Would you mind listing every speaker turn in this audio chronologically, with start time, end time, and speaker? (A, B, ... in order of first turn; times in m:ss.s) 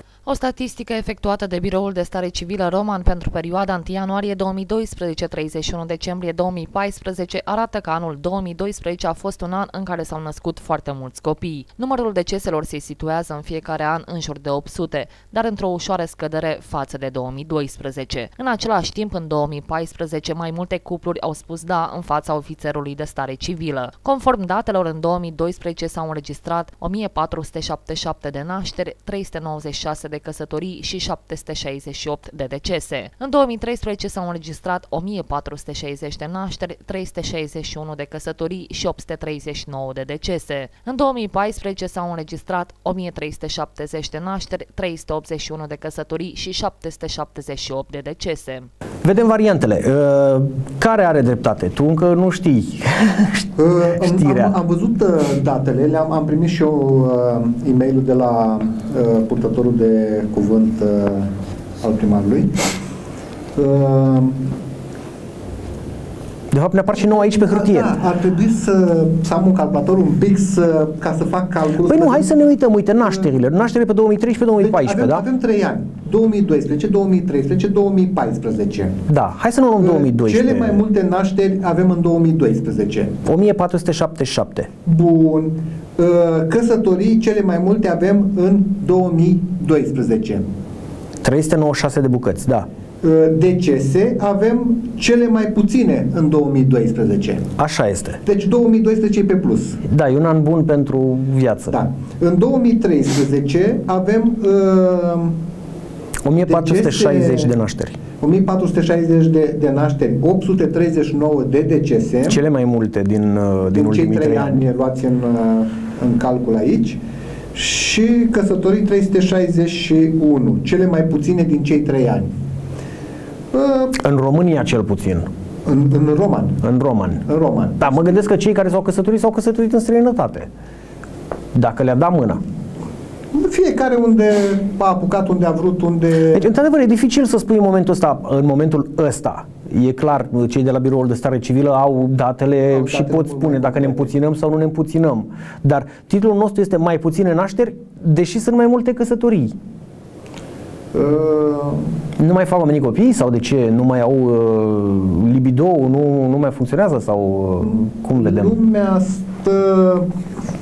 0:00.3-0:48.7 A
0:49.0-0:54.5 B
0:53.6-1:02.6 C
1:03.6-1:04.5 C
1:06.5-1:07.9 B
1:07.0-1:12.3 C
1:11.8-1:15.2 B
1:14.6-1:19.0 C
1:19.1-1:20.8 B
1:19.8-1:23.2 C
1:23.2-1:24.7 B
1:24.8-1:30.5 C
1:31.2-1:32.7 B
1:33.0-1:37.4 C
1:37.6-1:38.2 B
1:38.2-1:39.8 C
1:39.8-1:41.8 B
1:41.7-1:45.4 C
1:46.2-1:48.0 B
1:46.4-1:47.5 C
1:48.2-1:52.4 C
1:52.3-1:54.6 B
1:53.7-1:57.0 C
1:57.5-2:02.3 C
2:03.5-2:04.0 C
2:04.0-2:05.3 B
2:05.7-2:06.6 C
2:06.6-2:07.2 B
2:07.2-2:08.2 C
2:07.8-2:10.5 B
2:11.5-2:12.4 B
2:13.3-2:16.5 C
2:16.3-2:29.6 B
2:22.7-2:24.1 C
2:30.9-2:31.9 C
2:32.2-2:38.5 B
2:37.6-2:40.1 C